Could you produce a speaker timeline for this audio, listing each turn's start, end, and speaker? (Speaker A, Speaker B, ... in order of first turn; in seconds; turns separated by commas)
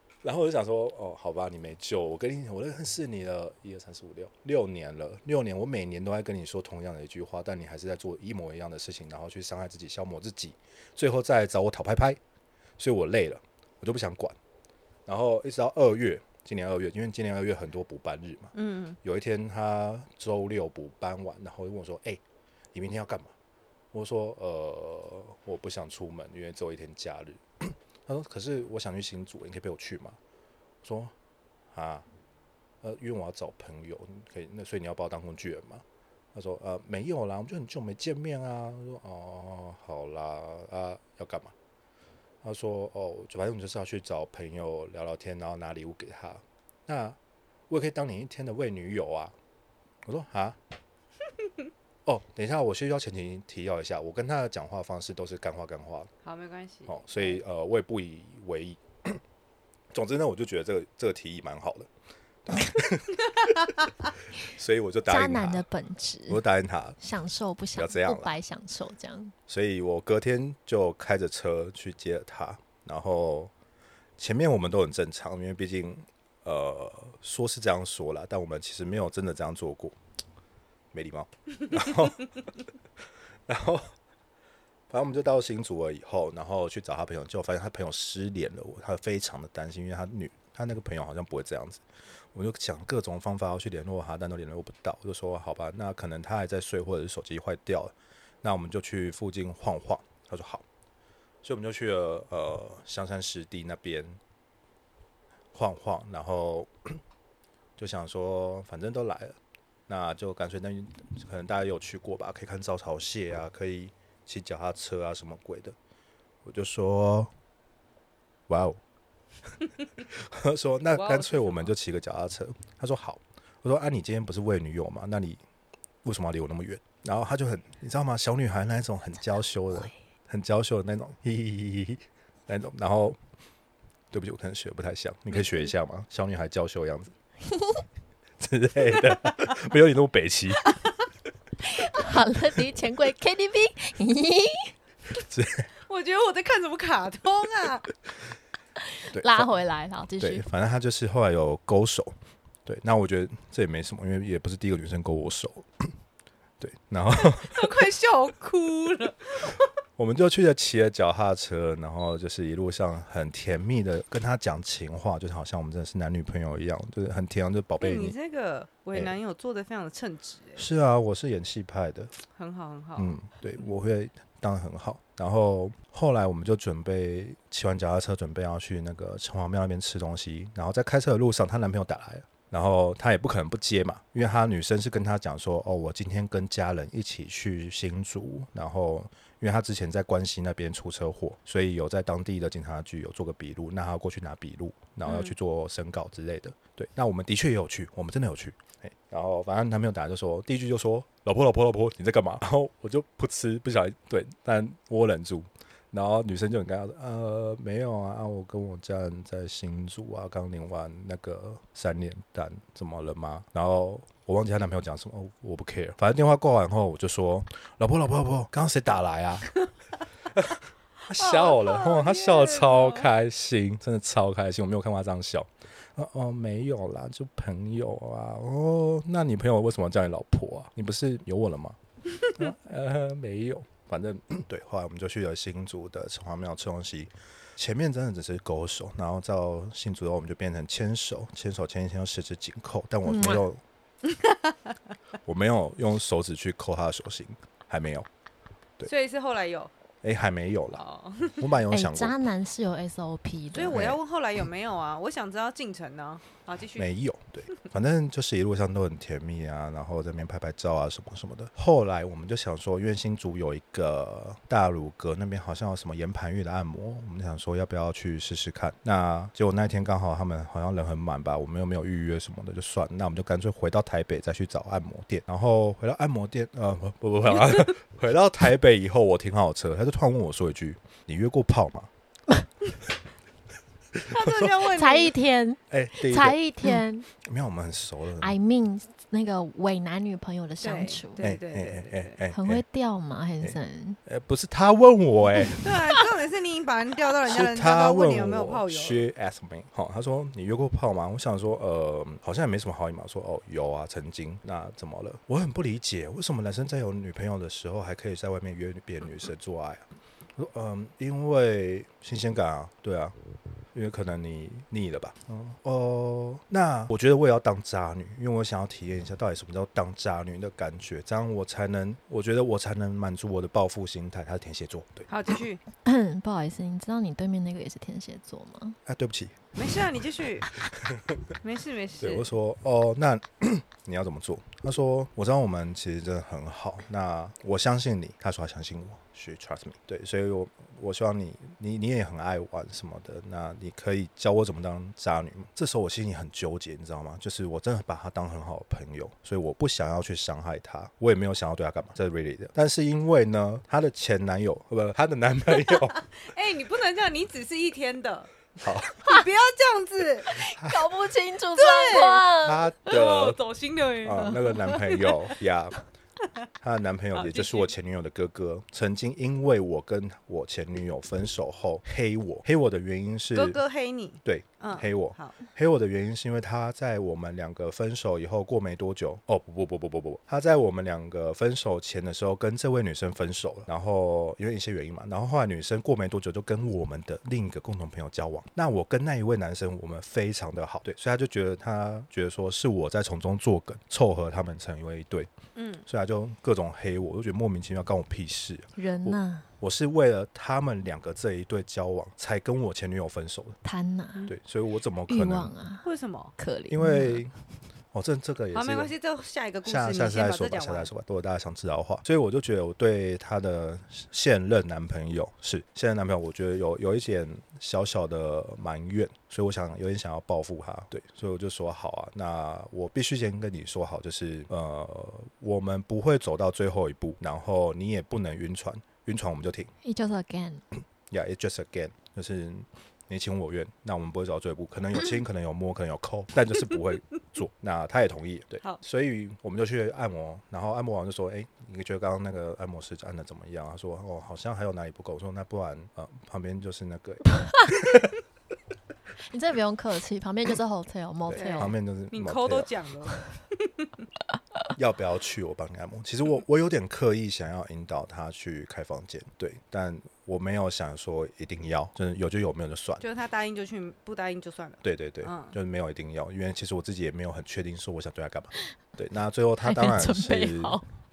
Speaker A: 0.2-12.2, Speaker A: 12.8-14.4, Speaker A: 15.1-22.2, Speaker B: 18.6-19.0, Speaker A: 22.7-23.3, Speaker A: 23.9-30.2, Speaker A: 30.8-31.1, Speaker A: 31.7-32.1, Speaker A: 32.8-41.5, Speaker A: 42.4-47.2, Speaker A: 47.7-49.4, Speaker A: 50.0-50.6, Speaker A: 52.1-56.1, Speaker B: 56.2-57.4, Speaker A: 56.9-59.2, Speaker A: 59.9-61.9, Speaker A: 62.5-63.9, Speaker A: 64.4-65.7, Speaker C: 65.1-66.4, Speaker A: 66.3-67.0, Speaker C: 67.0-69.3, Speaker A: 67.8-68.4, Speaker A: 69.5-73.5, Speaker A: 74.2-80.0, Speaker A: 80.9-82.5, Speaker A: 83.5-83.9, Speaker A: 84.9-100.7, Speaker A: 101.4-104.2, Speaker A: 105.5-107.0, Speaker A: 107.8-115.8, Speaker A: 116.4-117.3, Speaker A: 118.5-118.8, Speaker A: 120.1-125.4, Speaker B: 121.0-121.7, Speaker A: 126.0-133.2, Speaker A: 134.1-137.1, Speaker C: 137.5-137.8, Speaker A: 138.4-140.8, Speaker C: 141.7-144.7, Speaker A: 145.1-145.7, Speaker B: 145.9-147.9, Speaker C: 149.0-150.4, Speaker A: 149.1-149.5, Speaker A: 150.2-152.1, Speaker A: 152.7-155.9, Speaker A: 156.6-157.7, Speaker B: 157.2-159.7, Speaker A: 160.0-168.2, Speaker B: 167.8-170.7, Speaker A: 170.6-172.2, Speaker B: 172.3-173.2, Speaker A: 173.0-219.5, Speaker B: 195.1-195.3, Speaker A: 220.3-231.8, Speaker B: 221.1-223.1, Speaker A: 232.3-243.6, Speaker C: 243.1-243.4, Speaker B: 244.0-244.7, Speaker A: 245.3-248.1, Speaker B: 248.8-249.7, Speaker A: 250.0-250.8, Speaker B: 250.7-251.5, Speaker A: 251.4-252.2, Speaker C: 251.7-253.9, Speaker B: 253.5-256.9, Speaker A: 253.7-254.0, Speaker A: 256.8-281.9, Speaker A: 283.9-284.7, Speaker B: 284.1-285.1, Speaker C: 284.7-287.1, Speaker A: 285.7-288.3, Speaker C: 288.2-291.2, Speaker B: 290.6-292.2, Speaker A: 291.2-292.6, Speaker C: 292.3-294.0, Speaker A: 293.4-295.9, Speaker B: 295.6-299.0, Speaker A: 297.3-313.1, Speaker A: 313.7-325.1, Speaker B: 325.1-325.6, Speaker C: 325.8-328.8, Speaker A: 328.9-329.5, Speaker B: 329.6-330.5, Speaker A: 330.6-331.3, Speaker B: 331.4-332.3, Speaker A: 332.0-356.0, Speaker B: 355.7-358.3, Speaker A: 358.6-359.1, Speaker B: 359.0-360.4, Speaker C: 360.3-362.6, Speaker A: 360.6-360.9, Speaker B: 361.6-362.3, Speaker A: 362.4-363.4, Speaker B: 362.9-365.3, Speaker A: 364.0-365.8, Speaker A: 366.6-373.6, Speaker B: 367.1-367.7, Speaker B: 373.3-375.4, Speaker A: 374.2-395.3, Speaker B: 395.6-395.9, Speaker A: 395.9-403.6, Speaker C: 398.8-399.5, Speaker C: 403.6-404.3, Speaker A: 404.3-405.5, Speaker C: 405.1-407.2, Speaker B: 405.8-406.3, Speaker A: 406.7-407.3, Speaker A: 407.9-408.9, Speaker B: 408.5-410.9, Speaker A: 409.6-429.7, Speaker C: 429.8-430.6, Speaker A: 431.1-448.1, Speaker C: 449.3-451.7, Speaker A: 451.3-452.7, Speaker B: 451.3-453.9, Speaker A: 454.8-463.1, Speaker B: 463.0-465.6, Speaker A: 464.8-470.8, Speaker C: 469.6-470.9